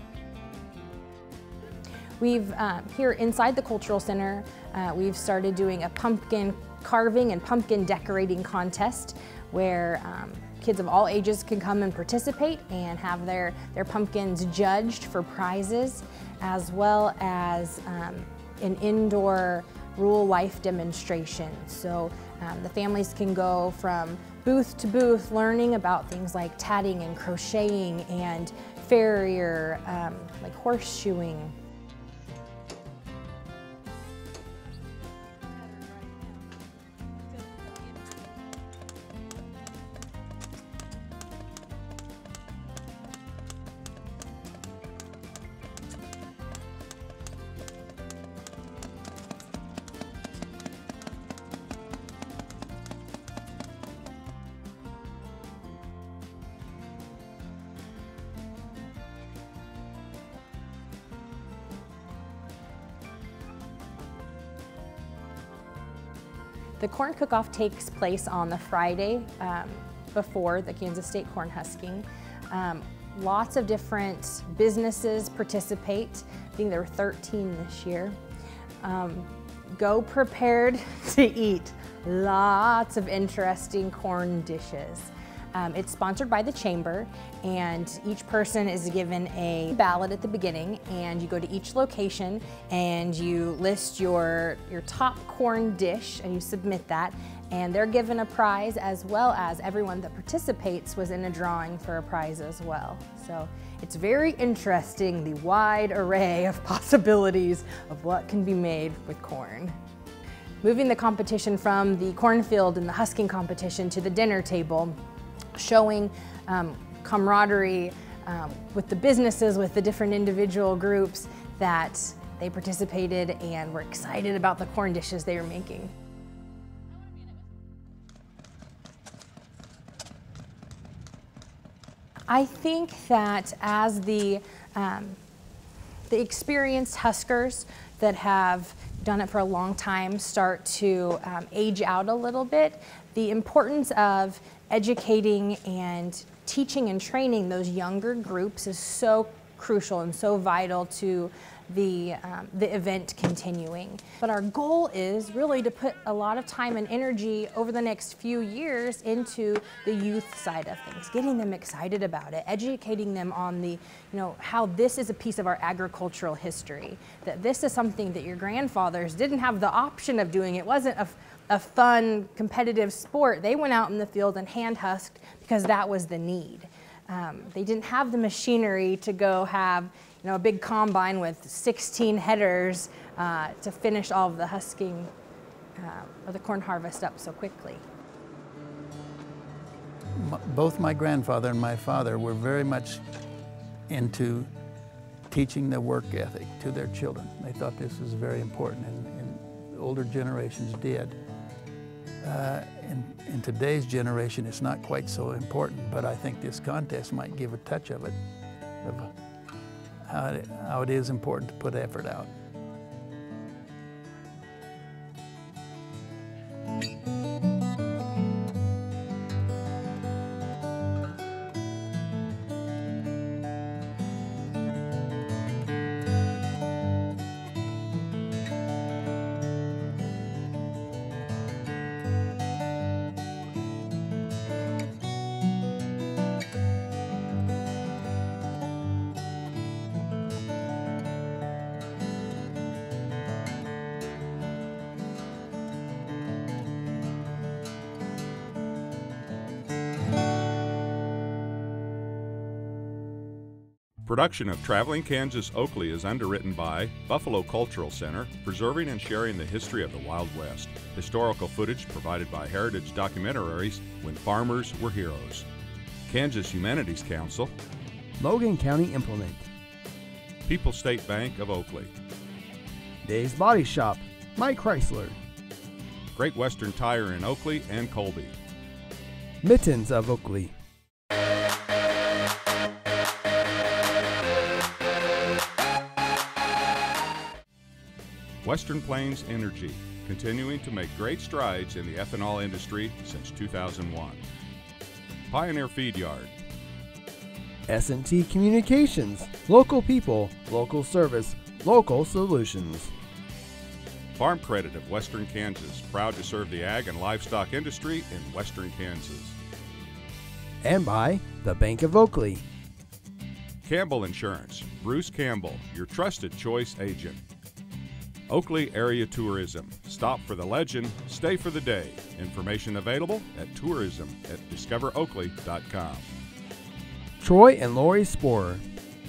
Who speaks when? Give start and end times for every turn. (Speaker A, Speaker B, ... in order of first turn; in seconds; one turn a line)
Speaker A: 2.2-31.6
Speaker A: 66.8-78.2
Speaker A: 78.8-109.8
Speaker A: 110.6-115.0
Speaker A: 115.6-125.9
Speaker A: 132.3-135.2
Speaker A: 136.1-185.1
Speaker A: 185.8-187.8
Speaker B: 190.2-193.0
Speaker B: 193.9-194.5
Speaker B: 195.3-201.2
Speaker B: 202.2-208.2
Speaker B: 208.8-209.1
Speaker B: 210.1-212.3
Speaker C: 254.1-265.5
Speaker C: 266.1-267.5
Speaker D: 268.2-269.5
Speaker C: 270.5-271.9
Speaker D: 273.0-275.2
Speaker C: 276.1-278.4
Speaker D: 279.4-280.5
Speaker C: 288.4-294.2
Speaker C: 295.3-296.4
Speaker D: 297.7-302.9
Speaker C: 304.2-309.4
Speaker D: 310.6-312.4
Speaker C: 313.6-317.2
Speaker C: 318.3-326.1
Speaker D: 327.2-328.6